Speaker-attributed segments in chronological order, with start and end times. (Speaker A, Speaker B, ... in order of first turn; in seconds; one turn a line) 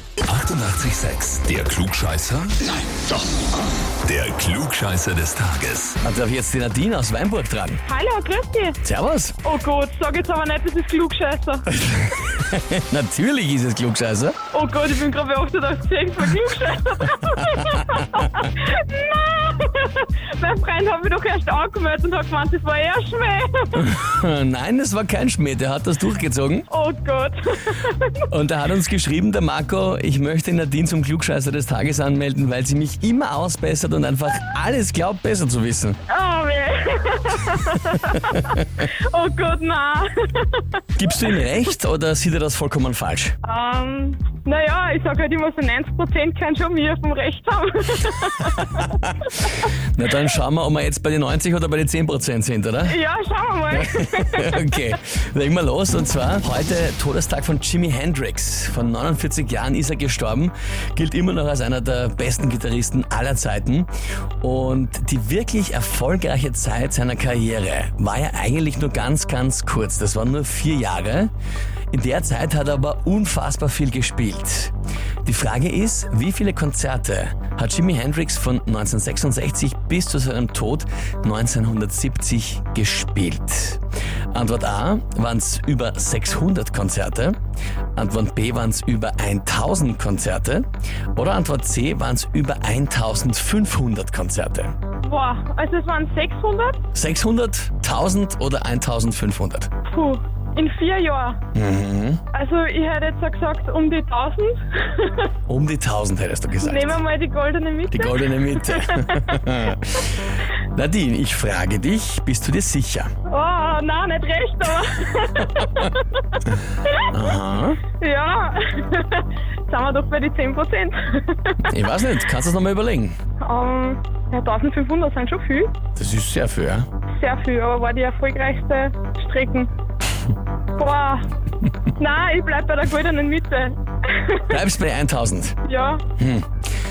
Speaker A: 0.2-3.2
Speaker A: 4.0-6.0
Speaker B: 6.0-7.8
Speaker C: 7.8-8.8
Speaker B: 8.8-9.4
Speaker C: 9.4-11.8
Speaker B: 11.8-14.4
Speaker C: 14.5-23.9
Speaker B: 23.8-26.7
Speaker C: 26.7-28.2
Speaker B: 28.3-36.0
Speaker C: 36.1-40.8
Speaker B: 37.6-38.5
Speaker B: 41.0-43.4
Speaker C: 43.4-49.6
Speaker B: 48.6-48.9
Speaker B: 49.9-53.0
Speaker C: 52.9-54.9
Speaker B: 53.7-63.9
Speaker B: 64.4-71.3
Speaker B: 71.9-74.7
Speaker B: 75.2-83.8
Speaker B: 84.3-87.4
Speaker B: 88.0-94.7
Speaker C: 95.0-96.8
Speaker B: 96.9-99.7
Speaker C: 99.9-101.4
Speaker B: 101.5-102.2
Speaker C: 102.3-105.3
Speaker B: 105.5-107.0
Speaker C: 106.6-109.4
Speaker B: 107.9-110.1
Speaker B: 110.7-113.1
Speaker C: 113.3-117.2
Speaker B: 117.0-117.8
Speaker C: 118.0-121.8
Speaker B: 121.7-123.2
Speaker C: 123.4-125.8
Speaker B: 126.0-126.9
Speaker C: 127.1-129.7
Speaker C: 130.7-131.3
Speaker C: 131.9-134.6
Speaker B: 134.5-135.6
Speaker C: 135.6-136.0
Speaker B: 136.2-136.5